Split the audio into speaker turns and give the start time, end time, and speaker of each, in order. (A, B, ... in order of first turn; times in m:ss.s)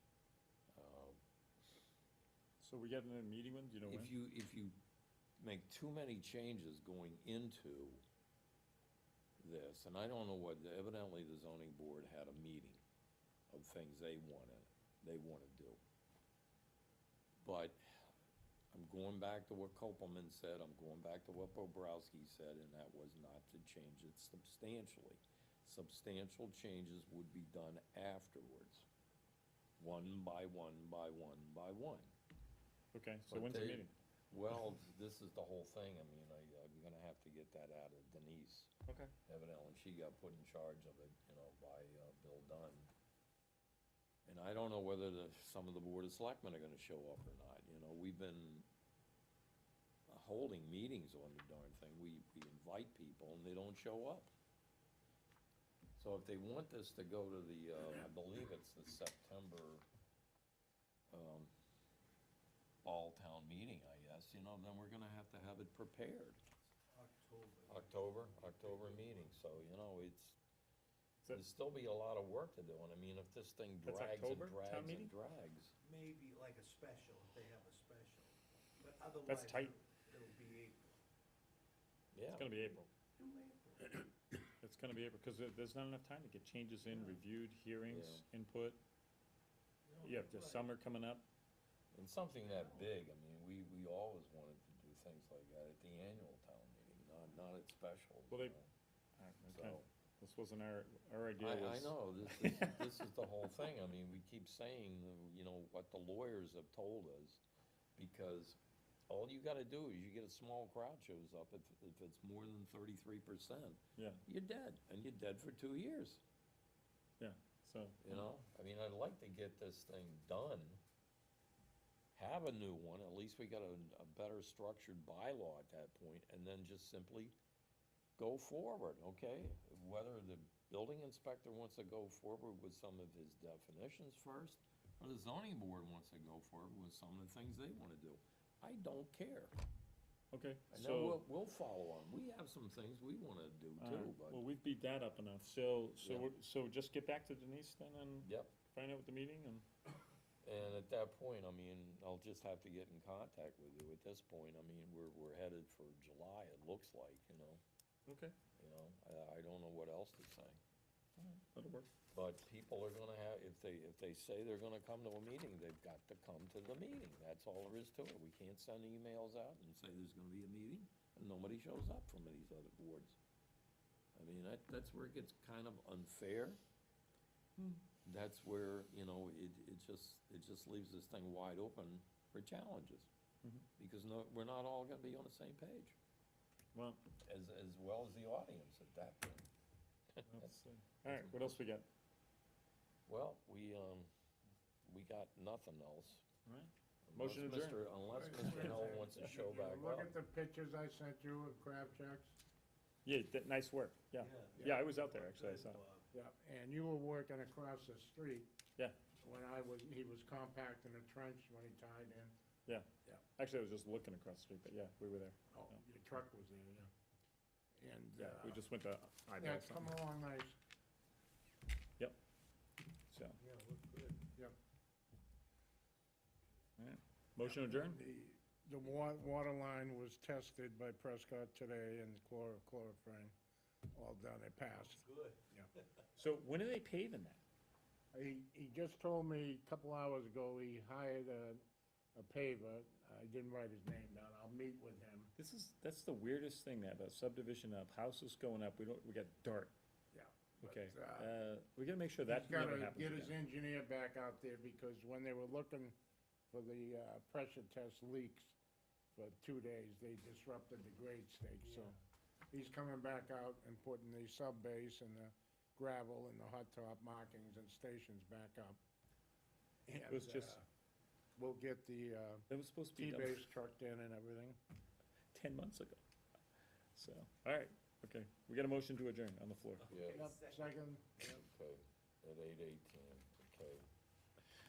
0:00.7-0:01.2 A
0:02.6-0:04.1 B
0:03.9-0:04.8 A
0:05.4-0:08.0 A
0:09.4-0:12.8 A
0:13.5-0:15.8 A
0:17.4-0:17.8 A
0:18.7-0:28.9 A
0:29.8-0:32.1 A
0:32.9-0:33.9 B
0:33.3-0:38.7 A
0:38.9-0:39.1 B
0:39.3-0:42.9 A
0:44.3-0:48.7 A
0:50.1-0:54.3 A
0:56.0-0:59.8 A
1:01.1-1:01.5 A
1:02.8-1:06.4 A
1:06.9-1:09.3 C
1:07.7-1:10.4 A
1:11.3-1:15.7 A
1:13.8-1:15.1 B
1:15.8-1:20.9 C
1:19.3-1:19.7 B
1:22.1-1:22.5 A
1:22.3-1:22.9 B
1:23.2-1:24.1 C
1:24.6-1:28.8 B
1:27.9-1:28.3 A
1:29.8-1:30.7 C
1:30.0-1:31.2 B
1:31.9-1:38.7 A
1:32.4-1:32.9 C
1:39.2-1:42.7 B
1:39.5-1:39.9 A
1:41.4-1:47.4 A
1:48.0-1:56.2 A
1:54.0-1:54.2 B
1:57.2-1:58.3 B
1:58.0-2:00.8 A
2:02.2-2:07.4 A
2:08.2-2:19.5 A
2:20.3-2:21.2 B
2:20.7-2:24.4 A
2:23.8-2:29.7 B
2:26.0-2:26.3 A
2:28.2-2:28.5 A
2:30.4-2:37.6 A
2:38.1-2:38.4 B
2:38.6-2:40.6 A
2:41.2-2:41.9 B
2:42.1-2:53.2 A
2:54.2-2:56.6 A
2:58.0-3:03.1 A
3:03.8-3:06.0 A
3:06.7-3:07.0 B
3:07.2-3:09.5 A
3:10.1-3:11.4 A
3:10.3-3:11.9 B
3:13.1-3:14.1 A
3:14.8-3:16.2 A
3:16.5-3:17.8 B
3:17.1-3:20.2 A
3:18.1-3:22.4 D
3:23.0-3:25.8 B
3:24.2-3:26.1 C
3:26.1-3:28.5 D
3:29.2-3:32.4 D
3:32.7-3:35.8 B
3:35.5-3:36.9 D
3:37.8-3:38.6 D
3:38.2-3:39.9 B
3:39.4-3:40.6 D
3:43.1-3:43.4 B
3:43.4-3:44.3 C
3:46.8-3:48.0 B
3:47.4-3:53.3 D
3:53.9-3:55.7 D
3:54.7-3:56.1 C
3:56.2-3:57.4 B
3:58.1-4:01.6 D
4:02.2-4:05.3 D
4:05.4-4:09.7 B
4:10.1-4:11.3 D
4:10.6-4:13.3 B
4:12.3-4:16.0 D
4:16.5-4:18.6 D
4:19.2-4:22.0 D
4:22.5-4:28.8 D
4:29.9-4:30.7 D
4:30.1-4:30.6 B
4:31.4-4:34.6 D
4:32.5-4:33.4 B
4:35.3-4:36.0 B
4:37.0-4:39.9 B
4:39.8-4:40.8 C
4:39.9-4:40.2 A
4:40.0-4:41.2 D
4:41.2-4:43.9 A